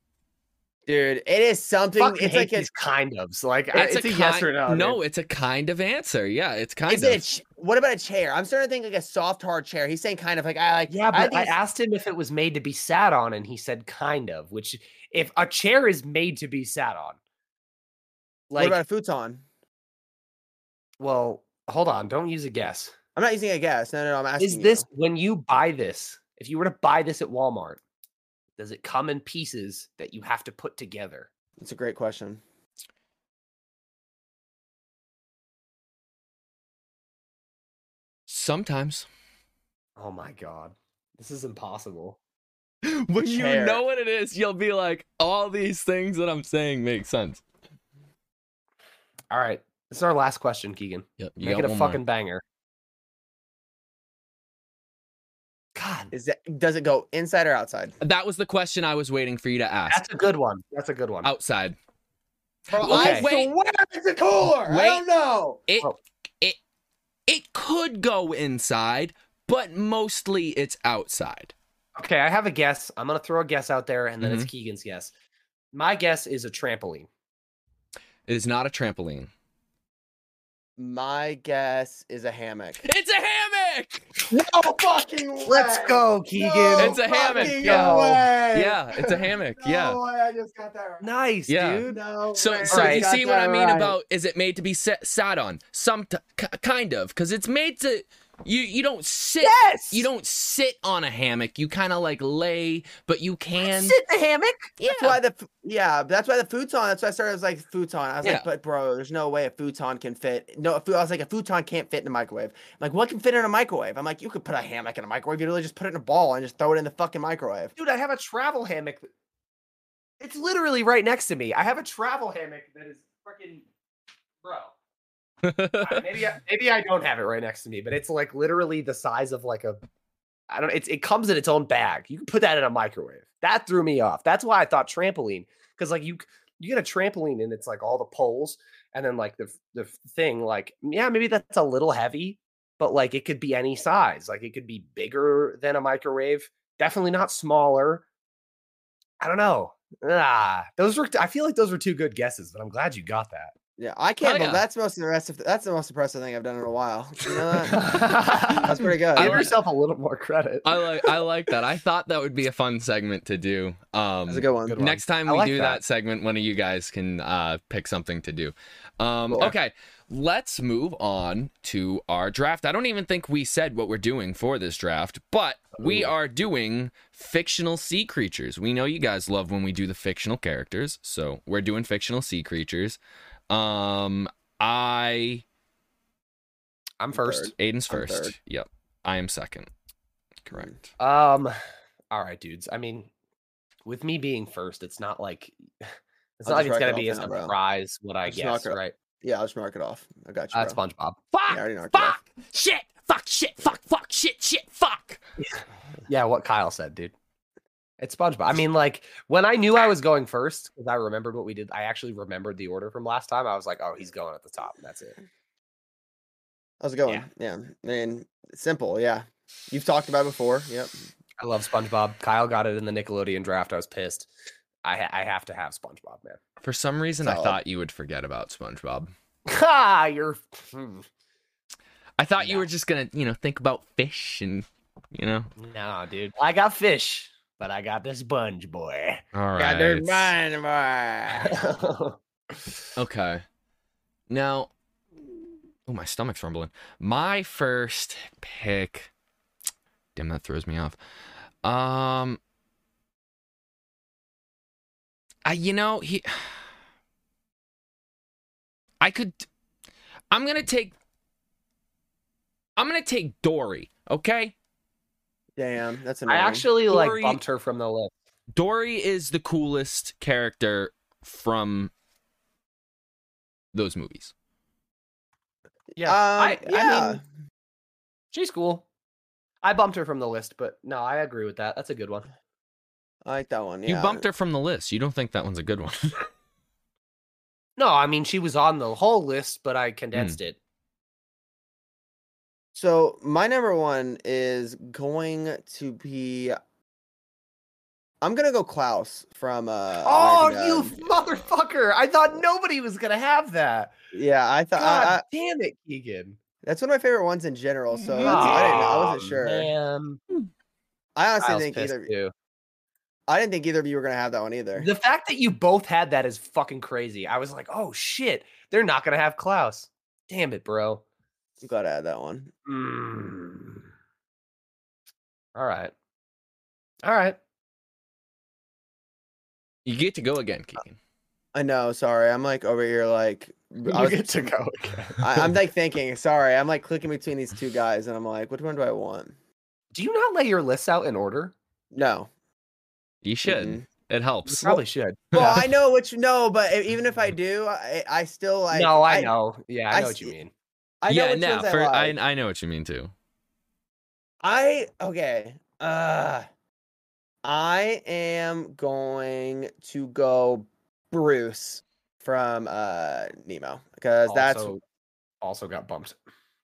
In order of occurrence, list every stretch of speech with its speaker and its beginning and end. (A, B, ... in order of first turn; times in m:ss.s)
0:00.9-0:02.7 A
0:02.0-0:05.0 B
0:03.7-0:07.2 C
0:06.9-0:11.5 A
0:10.9-0:17.2 B
0:18.5-0:18.8 B
0:18.6-0:19.4 A
0:21.0-0:22.9 B
0:23.2-0:24.8 A
0:24.4-0:27.8 B
0:28.6-0:31.3 B
0:31.6-0:32.4 A
0:38.3-0:39.0 C
0:40.0-0:42.2 B
0:42.8-0:47.4 C
0:43.2-0:43.8 A
0:49.3-0:52.4 B
0:51.2-0:52.0 C
0:55.8-0:56.1 B
0:56.1-0:58.0 A
0:58.0-1:00.0 C
0:59.9-1:01.3 B
1:01.2-1:01.8 C
1:02.7-1:05.6 A
1:02.7-1:03.5 C
1:02.8-1:03.3 B
1:04.6-1:05.0 C
1:07.3-1:11.5 C
1:12.0-1:15.1 B
1:14.2-1:14.5 C
1:15.7-1:17.1 B
1:18.3-1:19.3 C
1:20.8-1:22.8 A
1:22.8-1:24.1 C
1:24.3-1:31.1 A
1:25.4-1:28.4 B
1:26.8-1:30.0 C
1:31.0-1:32.0 B
1:31.5-1:44.0 C
1:31.8-1:34.0 A
1:32.7-1:33.1 B
1:39.4-1:40.1 B
1:43.6-1:44.8 B
1:44.8-1:45.2 C
1:44.9-1:57.7 A
1:57.8-1:59.1 B
2:00.2-2:03.6 B
2:04.4-2:04.7 B
2:05.4-2:06.0 C
2:05.8-2:09.8 B
2:10.5-2:28.0 B
2:29.2-2:33.5 B
2:33.8-2:37.8 A
2:34.2-2:34.6 C
2:37.6-2:40.8 B
2:38.5-2:39.5 A
2:39.1-2:39.5 C
2:40.6-3:03.0 C
2:44.3-2:44.8 A
2:44.6-2:45.8 B
3:03.5-3:05.4 C
3:07.0-3:07.5 B
3:07.1-3:08.3 A
3:07.6-3:09.7 C
3:10.4-3:10.8 C
3:11.0-3:11.6 B
3:12.1-3:13.1 B
3:13.8-3:18.9 B
3:16.4-3:17.5 A
3:18.2-3:20.8 A
3:20.5-3:21.2 B
3:21.3-3:25.2 C
3:21.5-3:22.2 A
3:25.4-3:27.1 B
3:28.0-3:35.2 B
3:36.8-3:40.9 A
3:41.4-3:44.3 B
3:44.8-3:46.4 B
3:46.6-3:49.1 C
3:47.2-3:47.6 A
3:49.5-3:51.0 B
3:52.2-3:55.5 C
3:52.4-3:52.6 B
3:55.6-3:59.2 B
3:59.3-4:00.3 C
3:59.6-4:01.6 A
4:01.4-4:02.7 B
4:03.0-4:03.4 C
4:04.3-4:04.7 C
4:05.9-4:09.1 C
4:10.2-4:11.0 C
4:11.6-4:12.4 C
4:15.4-4:16.6 C
4:19.0-4:19.5 C
4:20.3-4:20.9 C
4:22.8-4:24.5 C
4:25.6-4:26.7 A
4:26.3-4:28.1 B
4:26.9-4:27.4 C
4:28.5-4:31.9 C
4:33.7-4:34.3 C
4:36.0-4:37.2 B
4:36.0-4:37.2 A
4:38.3-4:38.8 B
4:39.6-4:42.3 B
4:43.2-4:44.2 A
4:43.9-4:46.2 C
4:47.8-4:50.6 B
4:52.7-4:56.6 A
4:58.2-5:01.0 A
5:00.0-5:03.9 B
5:04.1-5:05.2 A
5:04.8-5:06.4 B
5:06.6-5:09.7 A
5:08.0-5:08.9 C
5:08.2-5:10.2 B
5:11.2-5:12.1 A
5:11.4-5:12.3 B
5:13.3-5:14.9 A
5:14.8-5:21.0 B
5:21.6-5:22.5 A
5:22.6-5:23.9 B
5:25.6-5:25.9 B
5:27.0-5:27.4 B
5:29.8-5:31.0 C
5:31.5-5:34.5 A
5:33.8-5:35.5 B
5:35.2-5:39.3 A
5:39.9-5:41.5 B
5:41.9-5:42.3 A
5:43.2-5:44.8 C
5:43.4-5:43.8 A
5:44.4-5:45.6 B
5:45.3-5:45.6 C
5:45.3-5:49.3 A
5:48.7-5:50.5 B
5:49.9-5:50.3 A
5:51.0-5:52.2 A
5:51.1-5:53.1 C
5:54.4-5:56.4 A
5:57.4-6:04.7 A
6:04.2-6:04.8 B
6:05.4-6:06.2 B